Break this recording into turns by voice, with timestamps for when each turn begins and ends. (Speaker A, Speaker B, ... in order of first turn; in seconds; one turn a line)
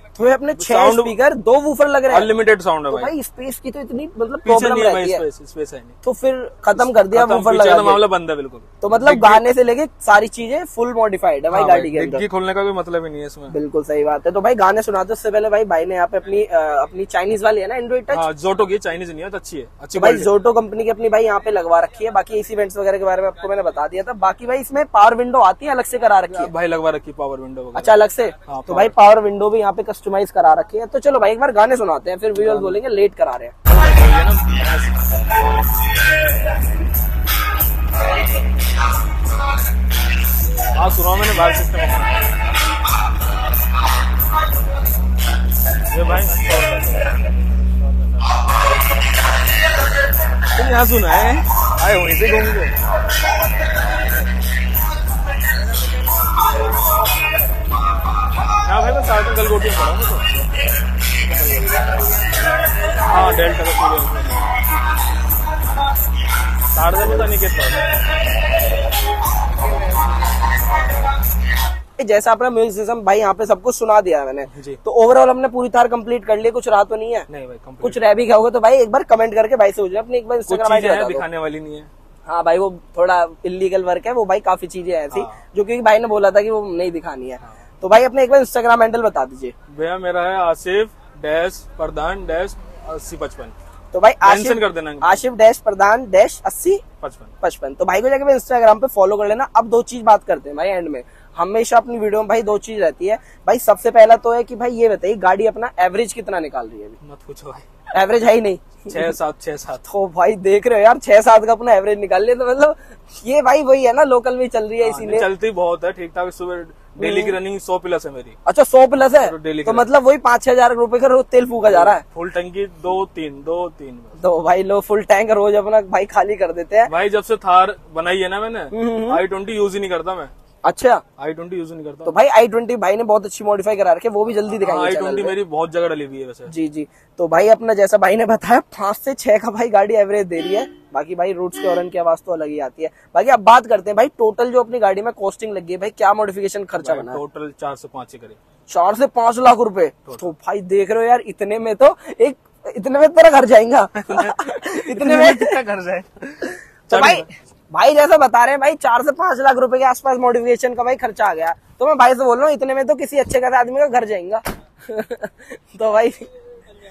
Speaker A: 0.2-2.3
Speaker B: 0.6-1.1
Speaker B: 2.1-3.1
Speaker A: 2.9-5.2
Speaker B: 4.4-5.9
Speaker A: 6.0-8.0
Speaker B: 6.8-9.4
Speaker A: 8.8-12.2
Speaker B: 11.5-13.5
Speaker A: 13.5-18.2
Speaker B: 18.1-20.3
Speaker A: 19.9-26.5
Speaker B: 26.3-28.9
Speaker A: 27.7-33.5
Speaker B: 32.4-32.8
Speaker B: 33.6-34.9
Speaker B: 40.7-42.1
Speaker B: 45.9-47.1
Speaker B: 50.5-52.7
Speaker B: 58.6-60.3
Speaker B: 61.3-61.8
Speaker B: 63.1-64.5
Speaker B: 66.7-68.0
Speaker A: 72.0-77.3
Speaker B: 74.5-74.8
Speaker B: 77.3-78.0
Speaker A: 77.8-81.2
Speaker B: 80.5-81.9
Speaker A: 82.2-89.5
Speaker B: 85.1-85.4
Speaker B: 89.7-93.5
Speaker A: 93.9-96.8
Speaker B: 94.2-95.2
Speaker B: 97.0-97.3
Speaker A: 97.4-107.0
Speaker B: 107.0-107.7
Speaker A: 107.9-109.1
Speaker B: 108.9-109.8
Speaker A: 109.8-115.3
Speaker B: 114.8-118.4
Speaker A: 117.0-117.3
Speaker A: 118.5-122.0
Speaker B: 119.2-119.9
Speaker B: 121.7-124.2
Speaker A: 124.2-126.9
Speaker B: 126.9-130.3
Speaker A: 128.7-129.2
Speaker A: 130.6-131.0
Speaker B: 131.2-132.1
Speaker A: 132.0-135.3
Speaker B: 134.4-136.5
Speaker A: 136.5-147.2
Speaker B: 146.8-148.4
Speaker A: 148.7-155.6
Speaker B: 154.0-157.3
Speaker A: 156.9-166.2